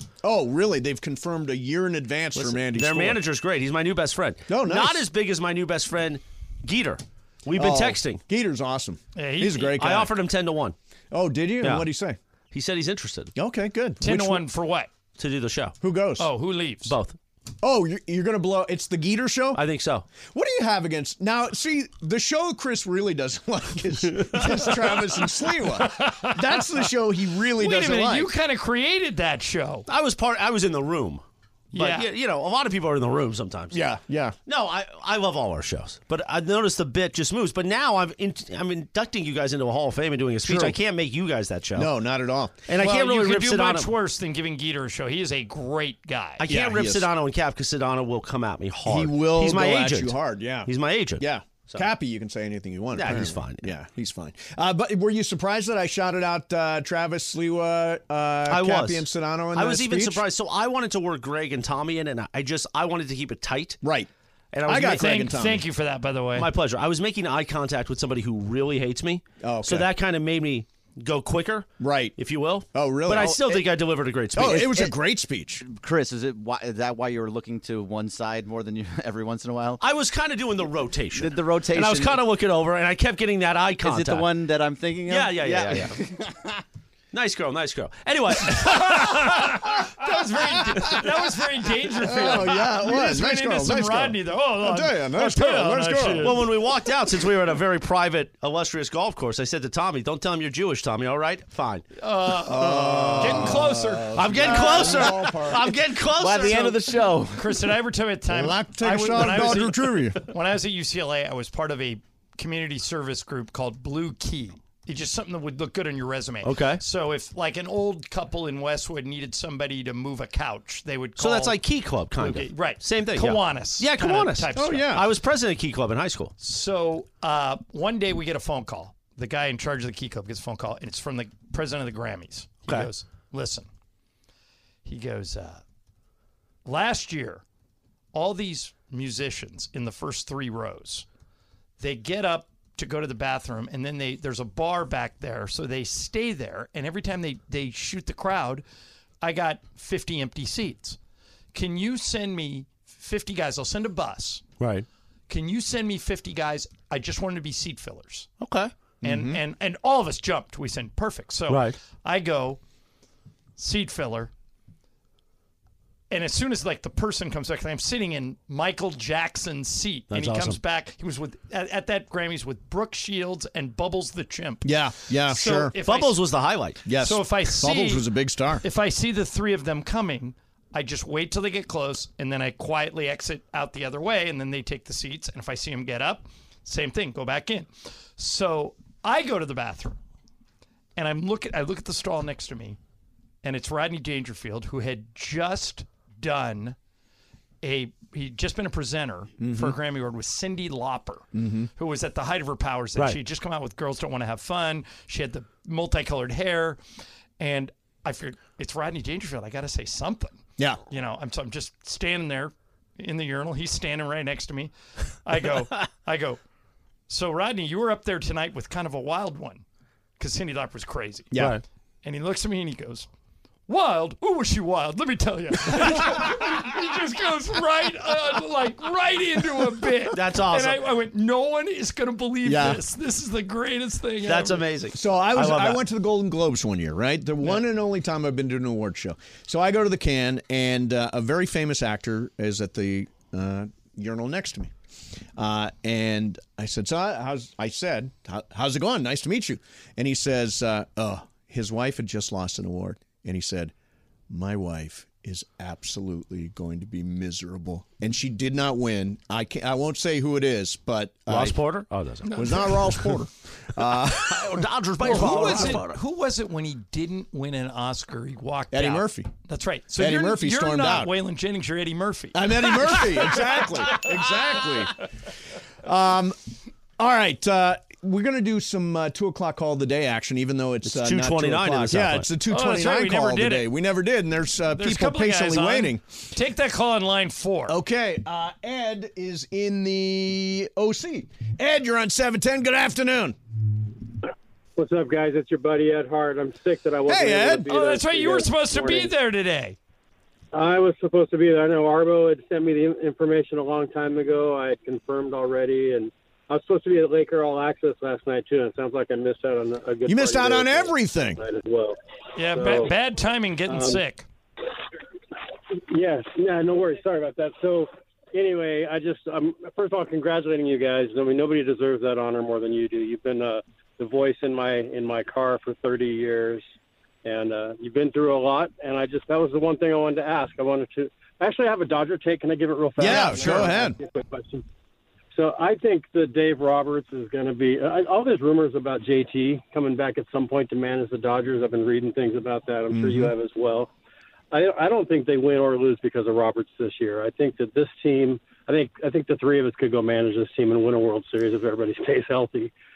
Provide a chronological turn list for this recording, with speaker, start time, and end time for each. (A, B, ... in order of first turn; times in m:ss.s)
0:00.2-0:03.2 A
0:02.4-0:08.2 B
0:04.5-0:05.0 A
0:07.6-0:10.1 A
0:09.2-0:09.8 C
0:09.8-0:10.8 B
0:11.1-0:12.2 A
0:11.6-0:11.9 B
0:12.5-0:13.3 B
0:13.4-0:14.4 A
0:14.0-0:14.9 C
0:15.2-0:15.8 B
0:15.8-0:16.3 A
0:16.2-0:17.0 C
0:16.9-0:17.2 B
0:17.6-0:19.6 A
0:19.6-0:20.1 B
0:20.2-0:28.3 A
0:25.5-0:26.9 C
0:27.5-0:29.9 C
0:29.9-0:31.2 B
0:31.7-0:32.1 C
0:31.7-0:33.8 B
0:33.7-0:34.4 A
0:34.5-0:41.9 B
0:40.4-0:40.8 A
0:41.8-0:42.7 A
0:42.7-0:43.9 B
0:42.8-0:46.5 C
0:46.4-0:51.9 B
0:46.5-0:47.1 A
0:48.9-1:00.2 A
0:52.9-0:53.7 B
0:58.5-1:03.8 B
1:03.8-1:04.1 A
1:04.5-1:05.1 B
1:04.6-1:05.6 A
1:04.8-1:06.5 C
1:06.4-1:14.9 B
1:09.4-1:09.9 A
1:11.8-1:12.1 A
1:12.7-1:13.7 A
1:14.3-1:15.6 A
1:14.5-1:14.8 D
1:15.6-1:19.8 D
1:19.8-1:24.3 B
1:21.2-1:22.2 D
1:23.8-1:26.6 D
1:25.1-1:26.0 B
1:27.1-1:29.3 B
1:28.9-1:36.5 C
1:30.0-1:31.1 A
1:32.0-1:36.5 A
1:36.1-1:41.9 B
1:42.0-1:44.9 C
1:42.4-1:45.8 A
1:42.7-1:43.6 B
1:44.1-1:46.8 B
1:46.1-1:47.6 D
1:47.3-2:01.6 C
1:48.3-1:50.3 A
1:56.4-1:56.8 B
2:01.2-2:06.3 B
2:02.2-2:05.0 C
2:04.6-2:05.0 A
2:06.4-2:13.7 C
2:14.8-2:15.6 C
2:16.6-2:17.4 C
2:18.1-2:21.0 C
2:21.8-2:28.6 C
2:29.2-2:31.0 C
2:31.5-2:34.4 C
2:34.6-2:34.9 B
2:35.3-2:38.3 C
2:38.4-2:38.7 B
2:39.0-2:39.4 A
2:39.0-2:42.6 C
2:41.5-2:41.8 B
2:43.6-2:44.3 C
2:46.1-2:56.3 C
2:50.1-2:50.6 B
2:54.6-2:55.8 A
2:55.8-2:56.9 B
2:56.8-2:58.6 A
2:56.9-2:58.1 C
2:58.6-3:10.0 C
3:11.0-3:12.8 C
3:13.4-3:16.8 C
3:17.6-3:26.8 C
3:19.4-3:19.8 A
3:21.3-3:21.7 A
3:27.4-3:34.7 C
3:35.2-3:36.4 C
3:37.1-3:39.6 C
3:40.2-3:41.3 C
3:41.3-3:41.6 A
3:41.4-3:41.6 B
3:42.0-3:43.1 C
3:43.7-3:54.7 C
3:50.1-3:50.8 B
3:52.4-3:52.8 A
3:54.2-3:55.8 B
3:54.9-4:04.7 A
4:05.4-4:13.7 A
4:14.3-4:21.6 A
4:21.3-4:23.1 B
4:22.3-4:22.9 C
4:22.4-4:25.8 A
4:24.1-4:26.0 B
4:25.0-4:34.6 C
4:28.7-4:29.3 A
4:30.0-4:31.1 A
4:32.3-4:35.0 A
4:35.8-4:36.4 A
4:37.0-4:46.0 A
4:40.8-4:42.3 B
4:42.4-4:43.7 C
4:44.8-4:47.8 C
4:47.7-4:53.4 A
4:54.8-4:59.1 E
4:57.1-4:57.7 A
4:57.7-4:59.8 C
5:00.5-5:12.0 E
5:10.1-5:11.4 A
5:12.4-5:14.3 C
5:12.5-5:12.9 E
5:13.7-5:14.0 E
5:15.9-5:26.6 E
5:27.2-5:34.6 E
5:33.0-5:34.0 A
5:35.3-5:43.9 E
5:42.9-5:43.3 A
5:44.5-5:52.7 E